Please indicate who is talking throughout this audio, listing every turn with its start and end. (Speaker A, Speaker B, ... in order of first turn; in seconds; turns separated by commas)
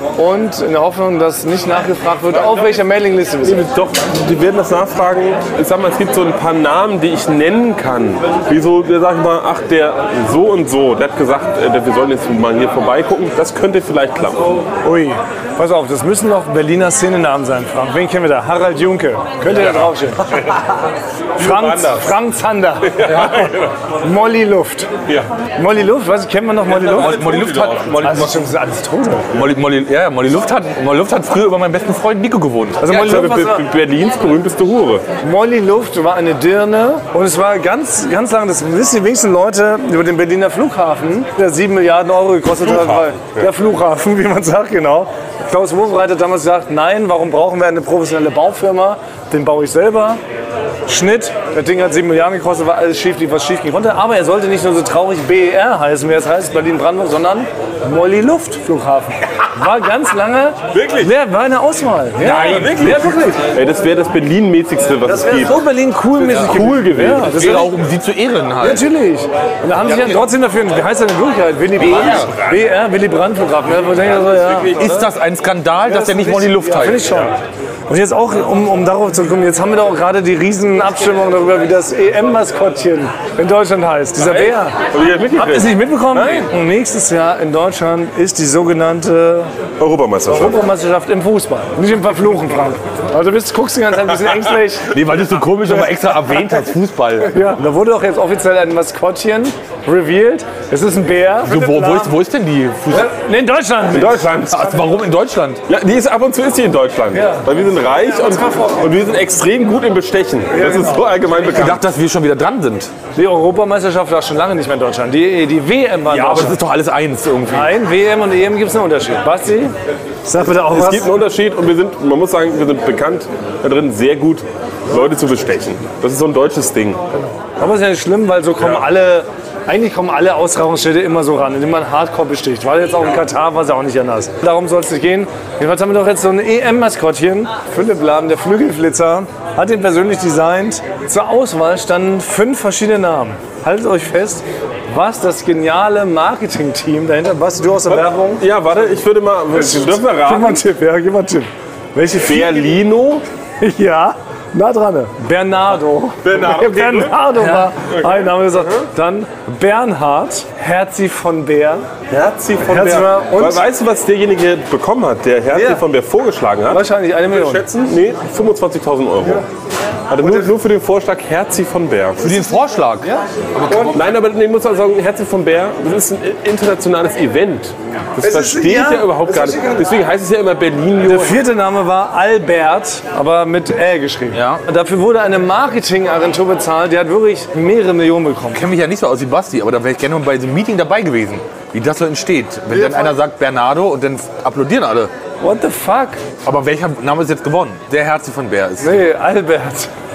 Speaker A: 0.2-3.6, Speaker B: 3.4-14.6, Speaker A: 14.8-20.4, Speaker A: 21.4-23.5, Speaker B: 21.4-22.1, Speaker B: 22.9-23.7, Speaker C: 23.0-23.6, Speaker A: 24.0-24.9, Speaker A: 25.6-27.3, Speaker B: 26.7-28.2, Speaker C: 26.9-28.4, Speaker A: 28.0-29.3, Speaker C: 29.3-32.9, Speaker A: 32.8-33.6, Speaker B: 32.9-35.0, Speaker A: 35.2-50.2, Speaker B: 42.6-43.4, Speaker A: 50.9-63.4, Speaker B: 60.7-61.1, Speaker C: 62.2-63.0, Speaker B: 62.3-65.6, Speaker A: 65.1-67.8, Speaker B: 66.3-67.7, Speaker C: 67.2-68.8, Speaker A: 68.6-75.1, Speaker C: 71.8-72.4, Speaker C: 74.7-77.1, Speaker A: 75.8-77.4, Speaker A: 77.9-84.8, Speaker B: 84.3-86.5, Speaker A: 85.4-89.5, Speaker B: 89.8-90.6, Speaker A: 90.3-95.0, Speaker C: 94.9-97.4, Speaker A: 97.3-102.1, Speaker C: 101.5-103.1, Speaker A: 102.9-104.3, Speaker B: 103.9-104.8, Speaker C: 104.5-105.6, Speaker B: 105.7-111.9, Speaker A: 107.1-107.5, Speaker A: 108.2-108.8, Speaker A: 110.5-111.1, Speaker C: 111.5-112.9, Speaker A: 113.2-116.6, Speaker C: 116.1-117.7, Speaker A: 117.5-119.7, Speaker A: 120.2-121.1, Speaker B: 120.7-127.0, Speaker A: 127.6-148.4, Speaker B: 147.9-150.6, Speaker A: 149.5-152.6, Speaker B: 152.2-153.2, Speaker A: 153.6-161.8, Speaker B: 156.2-157.9, Speaker B: 162.1-169.5, Speaker A: 162.6-163.6, Speaker A: 165.5-165.8, Speaker A: 166.7-167.7, Speaker B: 170.1-172.3, Speaker C: 172.2-174.0, Speaker B: 173.9-181.4, Speaker A: 178.2-179.8, Speaker A: 181.0-188.7, Speaker C: 184.3-184.6, Speaker C: 188.5-195.1, Speaker A: 195.4-196.2, Speaker C: 196.4-199.0, Speaker A: 198.8-199.9